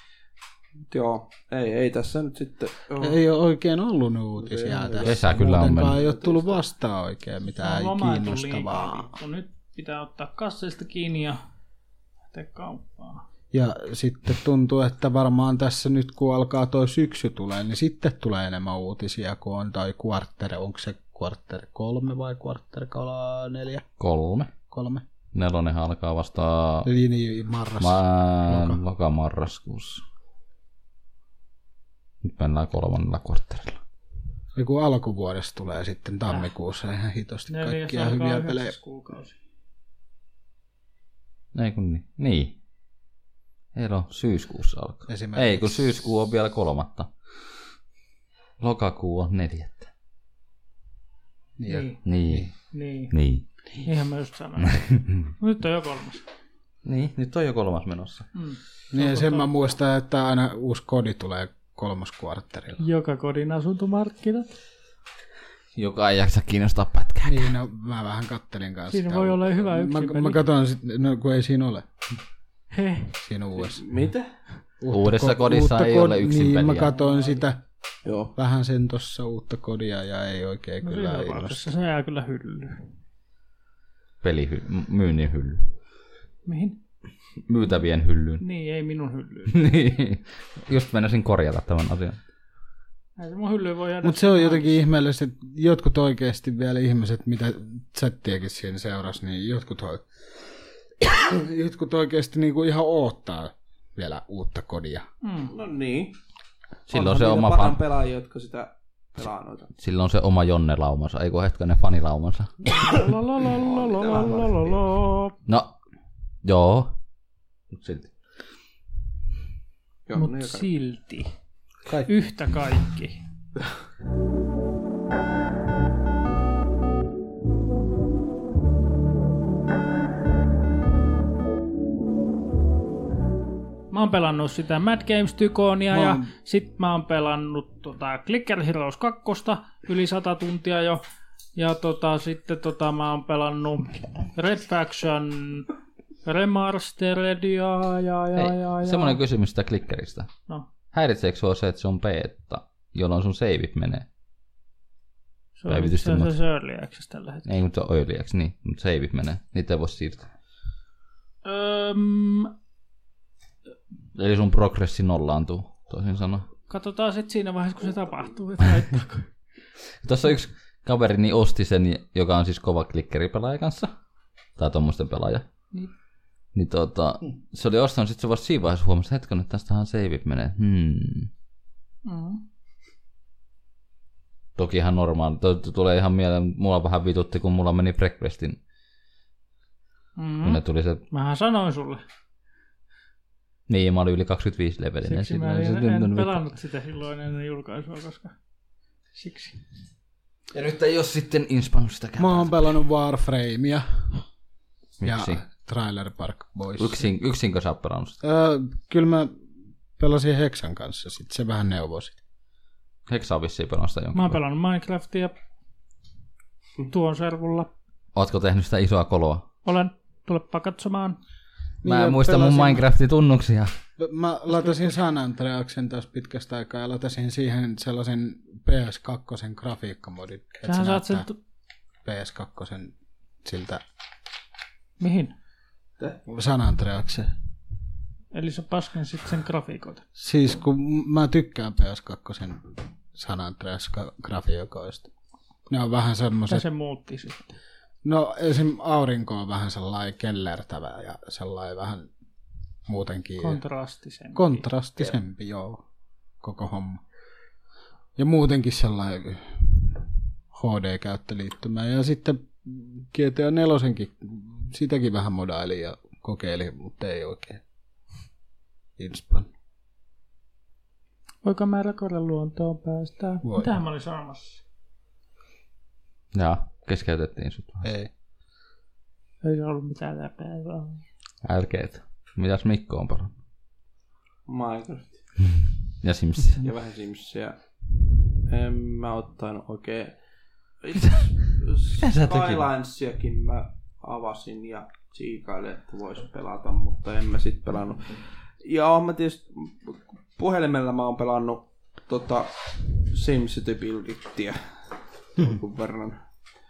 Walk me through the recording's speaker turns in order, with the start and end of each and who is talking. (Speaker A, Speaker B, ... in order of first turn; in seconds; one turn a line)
Speaker A: 0.9-3.2
Speaker B: 3.0-9.1
Speaker A: 4.4-6.6
Speaker C: 5.0-6.0
Speaker D: 7.5-11.4
Speaker D: 12.3-13.2
Speaker B: 13.5-23.9
Speaker C: 24.0-24.5
Speaker B: 24.7-25.1
Speaker C: 25.3-26.9
Speaker B: 26.9-28.8
Speaker C: 27.8-30.0
Speaker C: 32.2-33.8
Speaker B: 34.5-38.8
Speaker D: 37.5-39.4
Speaker C: 41.5-42.6
Speaker C: 43.8-47.1
Speaker B: 45.1-46.0
Speaker C: 48.6-49.9
Speaker B: 51.6-52.5
Speaker D: 51.7-52.0
Speaker C: 52.0-52.5
Speaker D: 52.7-53.1
Speaker C: 53.1-53.5
Speaker D: 53.8-56.3
Speaker C: 55.0-55.3
Speaker C: 56.8-58.3
Speaker D: 58.3-59.6
Speaker B: 58.9-62.8
Speaker D: 62.8-64.5
Speaker C: 65.8-67.5
Speaker B: 67.2-71.9
Speaker D: 68.9-70.4
Speaker D: 72.7-73.2
Speaker B: 73.2-73.8
Speaker A: 73.6-74.3
Speaker B: 74.8-77.6
Speaker C: 74.9-76.9
Speaker D: 76.8-77.5
Speaker A: 78.0-78.3
Speaker B: 78.3-81.7
Speaker D: 80.8-82.9
Speaker C: 84.2-85.7
Speaker D: 86.5-86.8
Speaker C: 87.5-88.4
Speaker D: 88.4-89.6
Speaker C: 89.5-92.2
Speaker D: 93.2-94.8
Speaker B: 94.0-100.1
Speaker B: 101.0-105.1
Speaker D: 105.2-105.5
Speaker A: 105.5-106.2
Speaker C: 106.9-107.8
Speaker A: 106.9-109.7
Speaker C: 109.8-112.6
Speaker D: 112.7-115.4
Speaker A: 113.6-114.8
Speaker C: 115.5-115.7
Speaker C: 116.4-117.0
Speaker C: 117.7-118.1
Speaker A: 120.1-120.7
Speaker D: 120.2-121.3
Speaker D: 122.1-123.2
Speaker D: 133.9-141.0
Speaker B: 135.9-136.3
Speaker D: 141.6-145.7
Speaker D: 146.2-149.2
Speaker C: 148.4-150.3
Speaker C: 150.9-154.1
Speaker D: 155.6-157.5
Speaker C: 155.7-156.3
Speaker C: 157.4-160.3
Speaker D: 161.4-162.5
Speaker C: 164.2-166.5
Speaker D: 166.7-169.3
Speaker C: 170.0-173.9
Speaker C: 174.6-175.5
Speaker C: 176.5-181.3
Speaker D: 182.1-182.4
Speaker C: 184.6-188.6
Speaker D: 190.2-192.0
Speaker C: 190.4-191.0
Speaker C: 193.7-196.5
Speaker D: 195.0-198.3
Speaker D: 199.2-199.6
Speaker C: 200.5-202.7
Speaker B: 202.2-204.2
Speaker C: 205.0-205.4
Speaker B: 205.0-207.1
Speaker C: 206.8-208.2
Speaker B: 208.2-209.4
Speaker B: 210.0-212.2
Speaker C: 213.1-214.4
Speaker D: 214.1-215.3
Speaker D: 216.9-217.7
Speaker C: 218.2-219.4
Speaker D: 219.7-221.2
Speaker B: 221.8-222.9
Speaker C: 221.8-223.7
Speaker B: 224.0-231.3
Speaker D: 230.6-231.4
Speaker B: 232.0-233.8
Speaker D: 235.0-235.3
Speaker B: 236.3-237.3
Speaker D: 238.3-240.0
Speaker B: 240.2-245.1
Speaker B: 245.7-246.7
Speaker D: 246.5-247.5
Speaker B: 248.0-252.1
Speaker B: 252.9-253.6
Speaker D: 253.4-254.7
Speaker B: 254.3-255.8
Speaker B: 256.4-257.0
Speaker B: 258.2-259.9
Speaker B: 260.5-267.6
Speaker B: 269.0-269.5
Speaker D: 271.4-274.6
Speaker B: 273.4-273.8
Speaker C: 276.3-277.9
Speaker B: 277.8-278.1
Speaker D: 279.4-281.0
Speaker C: 281.4-283.3
Speaker A: 284.5-285.2
Speaker C: 286.0-286.6
Speaker A: 286.6-287.6
Speaker A: 288.5-290.2
Speaker A: 290.8-304.8
Speaker C: 292.0-292.7
Speaker A: 305.3-306.2